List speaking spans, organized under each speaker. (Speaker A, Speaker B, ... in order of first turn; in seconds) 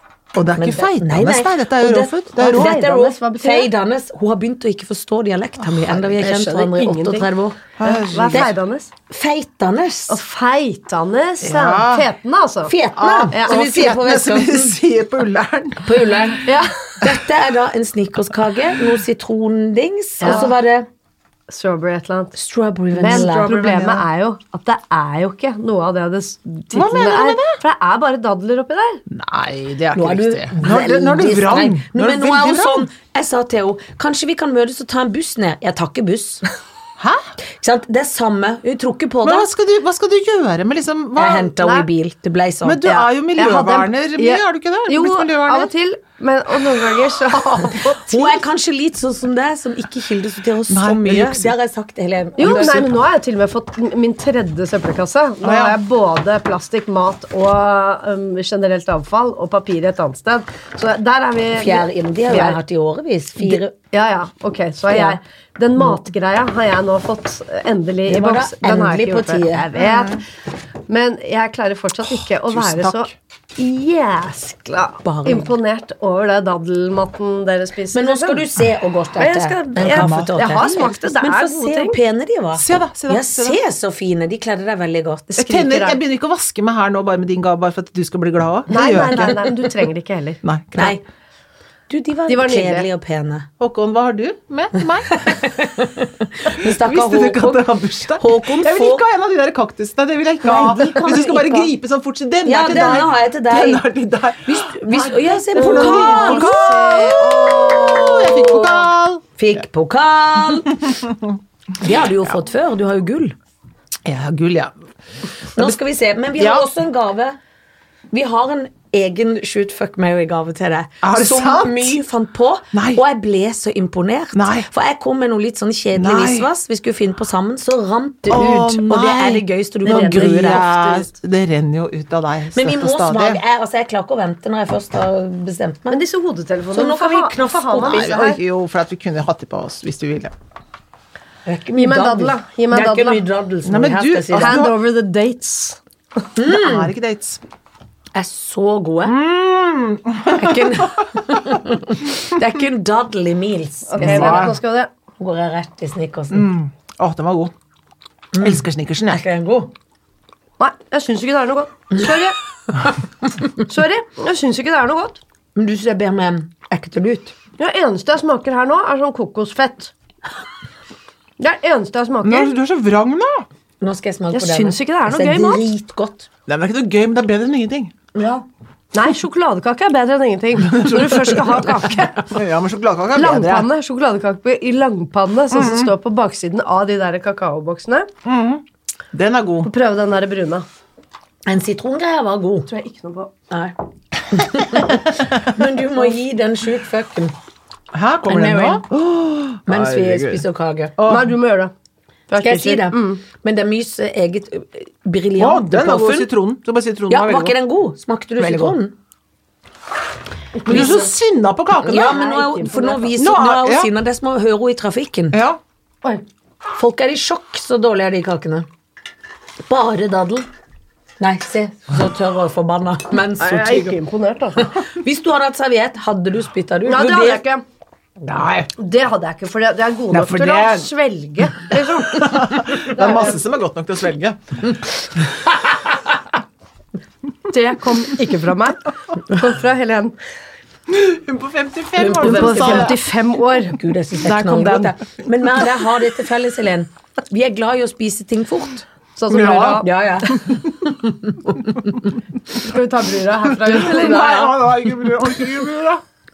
Speaker A: 0.3-2.8, 7.8-8.5, 11.4-12.1, 13.0-16.4, 23.1-23.9, 26.7-27.6, 29.1-32.9, 37.0-37.3, 39.2-41.5, 42.6-45.7, 50.7-51.6, 55.4-55.8, 69.8-70.2, 72.0-73.1, 79.8-80.4, 82.6-83.6, 85.4-89.4, 90.4-91.0, 93.6-95.6, 96.5-109.2, 110.5-111.4, 112.0-112.4, 114.0-114.8, 116.4-116.7, 121.0-122.0, 122.7-123.0, 124.3-124.7, 126.0-126.5, 128.3-133.4, 137.8-140.3, 143.7-144.8, 146.4-147.4, 149.0-151.5, 154.0-154.6, 156.3-157.5, 158.4-159.2, 172.2-173.5, 176.5-177.9, 180.6-183.7, 185.5-185.9, 188.2-189.7, 197.9-200.4, 201.0-201.3, 205.4-207.6, 208.4-208.8, 210.7-212.2, 213.2-213.9, 215.3-215.6, 228.2-228.7, 230.1-230.9, 232.1-235.5, 240.9-243.0, 249.3-249.8, 253.5-256.0
Speaker B: 0.5-7.6, 9.1-10.2, 12.7-14.8, 15.8-20.9, 22.4-24.0, 29.9-36.5, 37.6-39.5, 41.2-43.0, 48.1-52.9, 61.6-63.7, 64.9-65.2, 68.1-69.7, 75.0-75.5, 77.9-85.4, 90.8-91.0, 91.9-93.5, 95.1-99.0, 100.4-101.7, 102.5-103.9, 104.4-108.8, 109.4-110.8, 111.8-113.4, 115.6-117.4, 118.1-130.6, 132.5-136.0, 136.7-138.2, 141.5-144.7, 146.4-146.9, 148.2-149.2, 150.3-154.5, 155.2-156.5, 158.3-159.7, 165.6-167.3, 173.8-176.3, 178.2-178.5, 191.5-192.7, 193.5-193.8, 194.3-197.3, 198.2-198.8, 199.7-200.9, 202.4-206.3, 207.1-208.9, 210.7-211.1, 211.8-215.4, 216.8-218.7, 219.7-220.5, 221.2-224.0, 224.6-227.4, 242.0-243.0, 243.7-248.9, 249.8-252.0
Speaker C: 2.4-3.7, 6.0-7.3, 7.8-8.9, 10.1-12.8, 13.3-13.6, 16.5-16.8, 20.2-20.5, 21.5-22.4, 22.9-29.0, 41.6-41.9, 42.9-48.4, 52.4-62.6, 63.4-70.2, 70.9-78.5, 79.2-82.0, 85.4-86.0, 88.7-90.4, 92.3-92.9, 105.5-108.3, 129.8-131.1, 135.9-138.4, 141.8-143.2, 144.3-145.8, 153.9-154.9, 160.6-162.4, 163.6-165.2, 167.6-169.9, 171.4-172.5, 174.3-175.7, 178.9-182.3, 183.1-188.1, 189.6-190.7, 192.7-193.3, 201.1-201.7, 202.3-203.2, 210.6-211.1, 211.9-213.1, 223.4-224.7, 226.9-227.6, 228.8-233.4, 237.5-240.2, 242.2-245.0, 249.2-249.9, 252.5-254.6